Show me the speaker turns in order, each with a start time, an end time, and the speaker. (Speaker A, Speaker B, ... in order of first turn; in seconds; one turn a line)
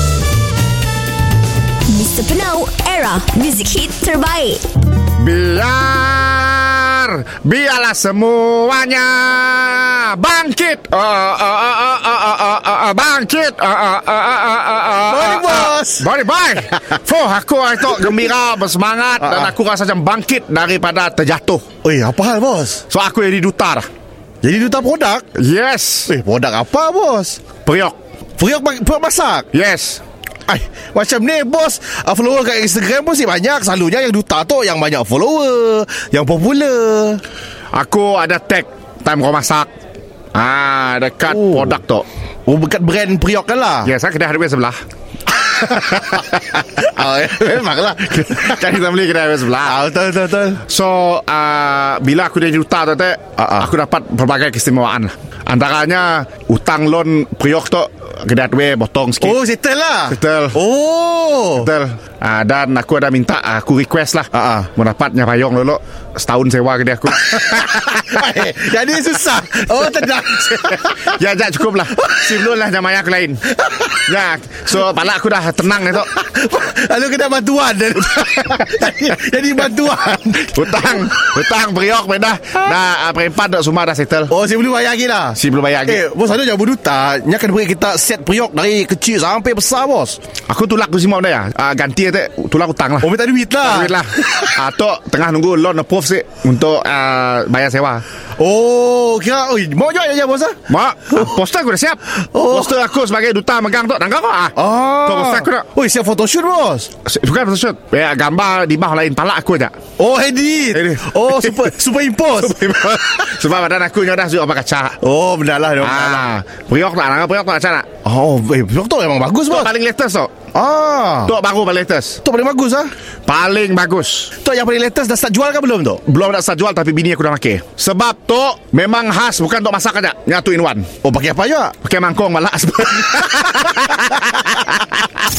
Speaker A: 1.9-4.6
Speaker B: 5.2-21.6
Speaker C: 15.0-16.1
Speaker C: 19.2-19.5
Speaker C: 21.8-22.8
Speaker B: 22.9-23.9
Speaker C: 24.4-25.3
Speaker B: 25.3-26.1
Speaker C: 26.1-27.5
Speaker B: 27.6-28.0
Speaker C: 28.4-29.5
Speaker B: 29.5-30.0
Speaker C: 30.5-37.2
Speaker B: 37.7-39.7
Speaker B: 40.3-42.0
Speaker C: 41.3-41.8
Speaker C: 42.5-43.9
Speaker B: 43.8-44.8
Speaker B: 45.4-46.2
Speaker C: 46.0-48.6
Speaker B: 48.3-49.8
Speaker C: 49.6-50.6
Speaker B: 50.6-59.4
Speaker C: 53.4-53.7
Speaker C: 59.2-61.7
Speaker B: 60.1-60.6
Speaker B: 61.6-68.1
Speaker C: 64.3-64.7
Speaker C: 67.7-71.1
Speaker B: 70.5-76.1
Speaker C: 76.1-80.5
Speaker B: 80.5-84.3
Speaker C: 84.3-90.2
Speaker B: 85.3-86.0
Speaker B: 90.5-93.1
Speaker C: 93.0-94.0
Speaker B: 93.6-98.0
Speaker C: 98.4-100.6
Speaker B: 100.7-105.7
Speaker C: 102.3-102.7
Speaker C: 104.6-106.9
Speaker B: 107.0-109.8
Speaker C: 110.0-112.6
Speaker B: 110.7-111.7
Speaker B: 112.4-115.0
Speaker C: 115.0-116.3
Speaker B: 115.8-117.9
Speaker C: 118.0-119.7
Speaker B: 119.5-120.5
Speaker C: 120.5-121.3
Speaker B: 121.2-122.2
Speaker C: 122.2-122.9
Speaker B: 123.2-124.3
Speaker C: 124.4-126.0
Speaker B: 126.0-130.9
Speaker C: 131.0-131.8
Speaker B: 131.8-135.0